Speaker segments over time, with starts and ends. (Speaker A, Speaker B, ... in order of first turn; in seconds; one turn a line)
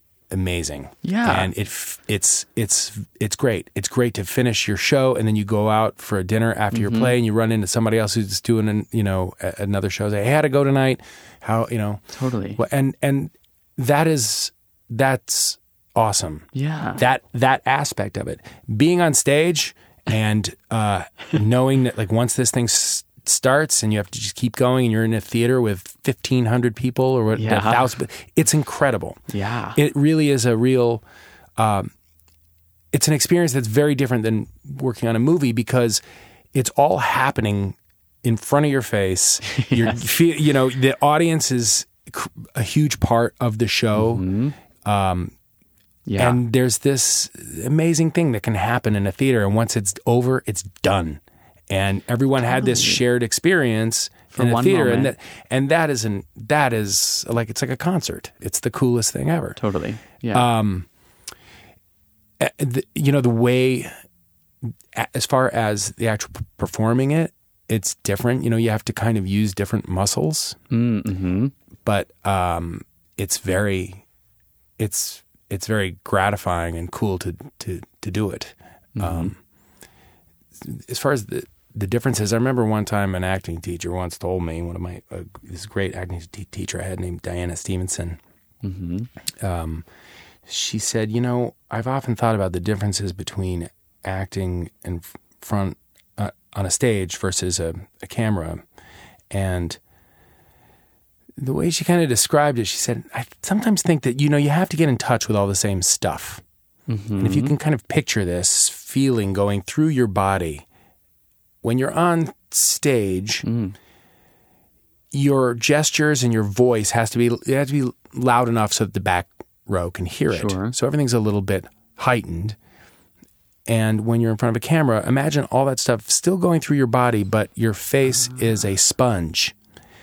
Speaker A: 0.3-12.0
Speaker B: 1.0-1.5
Speaker B: 6.7-7.1
Speaker B: 12.1-12.6
Speaker A: 12.6-29.2
Speaker B: 16.5-17.0
Speaker B: 27.3-27.9
Speaker B: 29.3-29.8
Speaker A: 29.7-31.0
Speaker A: 31.6-31.9
Speaker A: 32.9-36.0
Speaker A: 36.5-44.2
Speaker B: 39.5-40.0
Speaker B: 43.9-44.5
Speaker A: 44.8-45.3
Speaker B: 46.0-46.4
Speaker A: 46.2-59.6
Speaker B: 52.5-53.0
Speaker B: 54.3-55.1
Speaker B: 59.6-60.5
Speaker A: 60.3-60.9
Speaker A: 62.4-63.9
Speaker A: 64.7-70.6
Speaker B: 70.7-71.5
Speaker A: 71.8-74.0
Speaker A: 74.8-79.4
Speaker B: 79.0-79.3
Speaker A: 80.6-88.2
Speaker B: 88.6-89.1
Speaker A: 89.4-89.8
Speaker A: 90.5-98.6
Speaker A: 99.3-99.8
Speaker A: 101.4-106.4
Speaker B: 106.9-107.5
Speaker A: 107.2-110.6
Speaker A: 111.6-113.4
Speaker B: 113.4-113.7
Speaker A: 115.1-122.5
Speaker B: 120.3-120.7
Speaker A: 123.7-129.5